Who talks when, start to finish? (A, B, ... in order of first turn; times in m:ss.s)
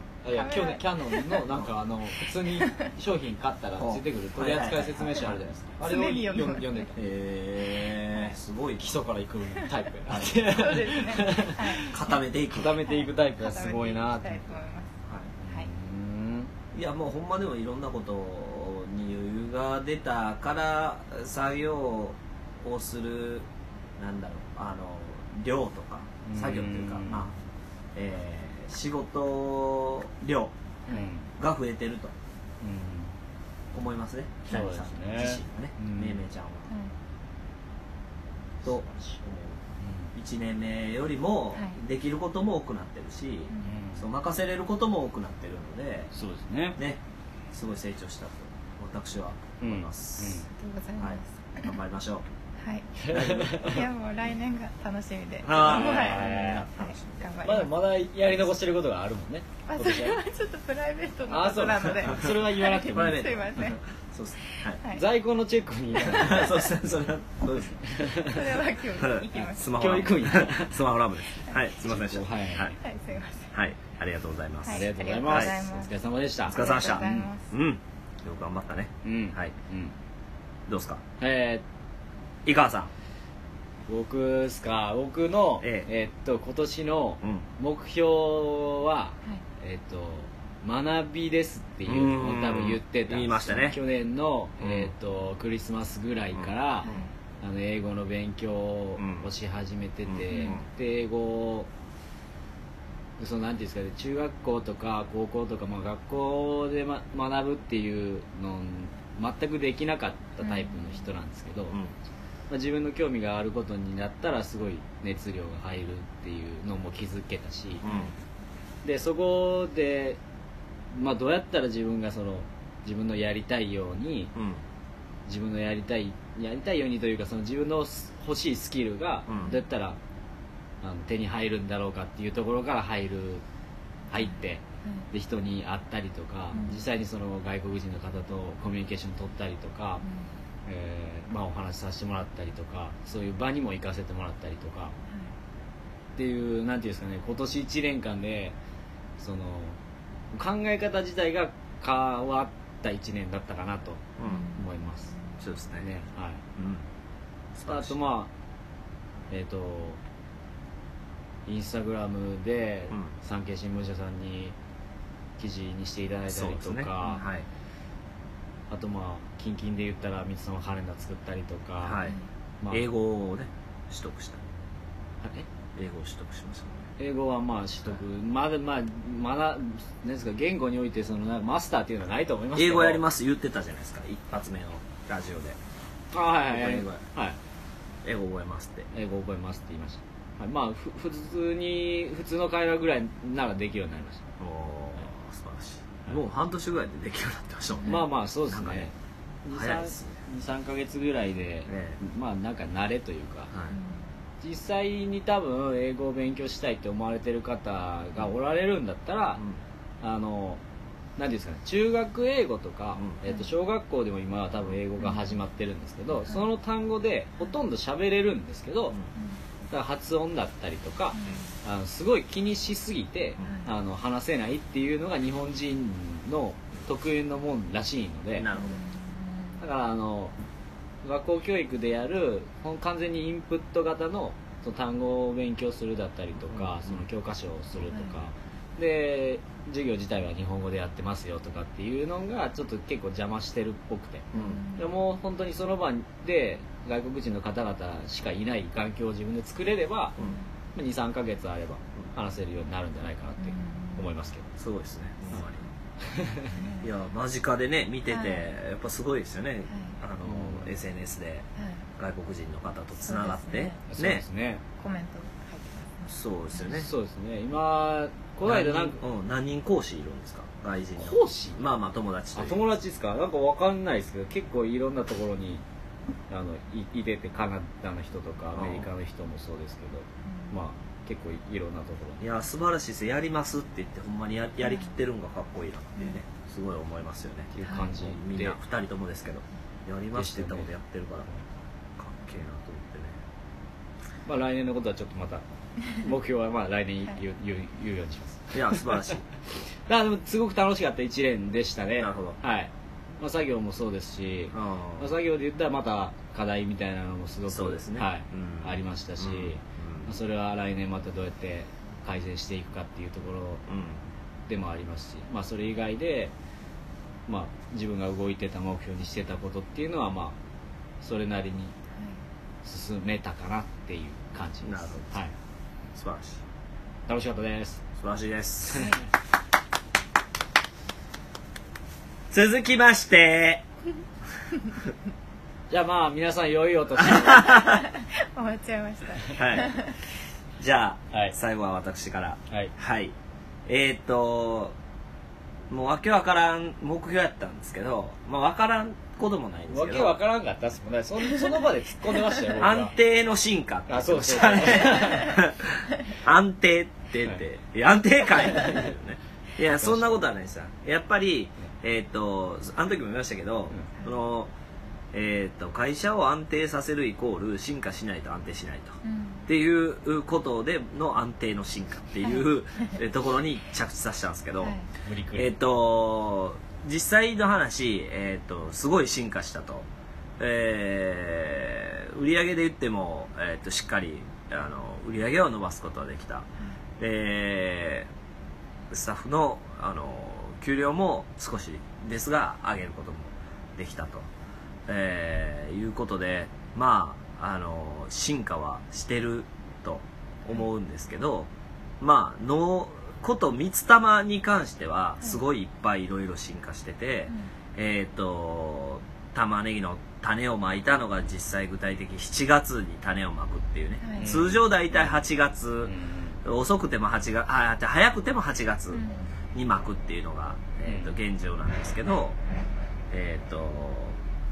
0:00.2-0:07.0 A
0:00.3-0:01.5 B
0:02.2-0:02.8 B
0:03.8-0:05.4 C
0:05.8-0:06.9 B
0:07.0-0:09.0 C
0:07.9-0:08.3 B
0:08.8-0:11.9 A
0:10.1-0:10.4 C
0:10.4-0:12.2 B
0:11.9-0:12.7 C
0:12.5-0:14.5 A
0:12.8-0:14.9 B
0:15.4-0:16.5 A
0:16.7-0:27.3 C
0:26.2-0:27.3 A
0:27.9-0:30.5 C
0:30.9-0:31.3 A
0:31.4-0:32.1 C
0:32.6-0:33.1 A
0:33.7-0:36.7 C
0:34.5-0:36.2 A
0:38.6-0:39.6 C
0:39.8-0:40.1 A
0:40.2-0:46.1 C
0:41.5-0:41.8 B
0:43.6-0:44.1 A
0:46.1-0:46.8 A
0:47.5-0:50.4 C
0:49.6-0:50.4 A
0:50.6-0:51.7 B
0:51.0-0:52.2 C
0:52.6-0:57.8 B
0:53.1-0:53.8 C
0:53.3-0:53.6 A
0:55.4-0:57.2 C
0:55.6-0:56.7 A
0:57.4-1:00.2 A
0:59.7-1:03.8 B
1:01.3-1:03.3 A
1:02.1-1:04.8 C
1:04.5-1:05.0 B
1:04.9-1:06.7 A
1:06.0-1:06.4 B
1:06.1-1:07.8 C
1:07.9-1:08.4 A
1:08.3-1:10.1 B
1:09.0-1:12.8 C
1:09.7-1:10.8 A
1:11.8-1:12.7 A
1:12.6-1:13.5 B
1:13.5-1:15.6 C
1:14.6-1:15.9 B
1:14.7-1:17.3 A
1:16.5-1:17.5 B
1:16.5-1:19.5 C
1:19.0-1:19.9 A
1:20.7-1:21.0 C
1:21.2-1:21.6 A
1:22.4-1:22.9 C
1:23.9-1:41.7 A
1:25.6-1:25.9 C
1:31.8-1:33.8 C
1:34.6-1:34.9 C
1:36.3-1:37.1 C
1:36.8-1:37.1 B
1:39.0-1:39.3 C
1:40.1-1:40.7 C
1:40.3-1:40.6 B
1:43.2-1:51.8 A
1:50.4-1:51.1 B
1:52.5-1:57.8 A
1:57.8-1:58.1 C
1:57.8-1:58.1 B
1:58.8-2:00.2 A
2:00.9-2:04.3 A
2:04.4-2:04.6 C
2:05.2-2:10.0 A
2:09.3-2:09.6 C
2:10.8-2:13.4 A
2:14.1-2:20.0 A
2:14.2-2:15.1 B
2:16.5-2:16.8 B
2:20.0-2:20.3 B
2:20.7-2:24.9 A
2:26.2-2:28.6 A
2:29.2-2:29.8 A
2:30.3-2:35.2 A
2:34.2-2:34.5 C
2:34.2-2:35.4 B
2:35.4-2:35.9 C
2:35.8-2:36.4 A
2:36.6-2:36.8 C
2:37.6-2:38.0 C
2:37.6-2:38.3 A
2:39.3-2:40.0 A
2:41.4-2:44.6 A
2:45.4-2:47.2 A
2:46.3-2:47.4 C
2:48.7-2:52.0 A
2:51.8-2:52.2 C
2:52.7-2:54.4 C
2:55.2-2:55.5 A
2:55.7-2:56.9 C
2:57.0-3:03.0 A
3:02.6-3:05.6 C
3:06.1-3:07.4 A
3:06.5-3:07.0 C
3:08.0-3:08.9 C
3:08.9-3:14.2 A
3:14.4-3:18.9 C
3:17.7-3:18.0 B
3:17.9-3:18.9 A
3:19.4-3:23.5 A
3:19.5-3:20.2 C
3:21.7-3:22.0 C
3:23.5-3:23.8 C
3:23.7-3:24.1 B
3:24.4-3:29.4 A
3:30.0-3:30.6 A
3:31.2-3:39.0 A
3:35.0-3:35.4 B
3:39.2-3:39.4 B
3:39.7-3:48.5 A
3:41.1-3:41.6 B
3:43.4-3:43.7 B
3:48.3-3:48.8 C
3:48.5-3:49.6 B
3:49.6-3:50.3 A
3:51.0-4:10.2 A
3:56.4-3:57.1 C
3:57.9-3:58.2 B
4:04.3-4:04.6 C
4:04.3-4:04.9 B
4:10.2-4:10.5 B
4:10.7-4:14.5 A
4:13.4-4:14.1 B
4:14.6-4:15.6 C
4:16.1-4:16.4 A
4:16.5-4:16.9 B
4:16.8-4:21.4 C
4:18.1-4:18.5 B
4:19.7-4:20.0 B
4:20.2-4:20.7 A
4:21.6-4:21.8 B
4:22.0-4:24.2 C
4:23.0-4:23.8 B
4:23.9-4:24.6 A
4:24.8-4:26.1 B
4:26.1-4:26.9 C
4:26.6-4:29.0 A
4:28.4-4:32.6 C
4:31.0-4:31.6 A
4:32.3-4:35.6 A
4:36.3-4:42.2 A
4:38.5-4:38.9 C
4:40.2-4:40.6 B
4:42.2-4:51.3 C
4:44.6-4:44.9 B
4:47.5-4:48.6 A
4:47.6-4:48.0 B
4:50.1-4:50.7 A
4:52.0-4:53.2 C
4:54.2-4:55.4 A
4:56.0-4:59.1 A
4:58.5-4:59.3 C
4:59.9-5:13.6 A
5:02.0-5:02.4 C
5:04.5-5:05.2 C
5:07.5-5:10.2 C
5:13.7-5:14.0 C
5:14.5-5:16.3 A
5:17.3-5:20.4 A
5:21.0-5:21.7 A
5:22.6-5:25.3 A
5:24.6-5:25.2 C
5:25.9-5:26.4 C
5:27.1-5:27.8 A
5:28.0-5:28.9 C
5:28.7-5:29.0 B
5:32.3-5:33.6 C
5:35.7-5:37.6 A
5:37.0-5:37.7 C
5:37.3-5:39.9 B
5:39.3-5:39.7 C
5:40.6-5:43.1 C
5:43.7-5:44.7 C
5:45.7-5:50.2 C
5:49.7-5:52.9 A
5:52.6-6:04.5 C
5:53.9-5:55.4 A
5:58.6-5:58.8 A
5:59.7-6:00.2 A
6:05.1-6:14.8 C
6:09.0-6:09.5 B
6:12.2-6:13.0 B
6:14.6-6:14.9 B
6:15.0-6:15.5 A
6:15.4-6:19.8 C
6:20.4-6:26.5 C
6:27.0-6:28.1 C
6:28.9-6:34.3 C
6:34.9-6:41.5 C
6:42.0-6:55.9 C
6:54.0-6:54.3 B
6:54.2-6:55.1 A
6:55.8-6:56.4 A
6:56.4-7:02.4 C
6:58.9-6:59.2 B
7:00.8-7:01.1 A
7:03.1-7:04.2 C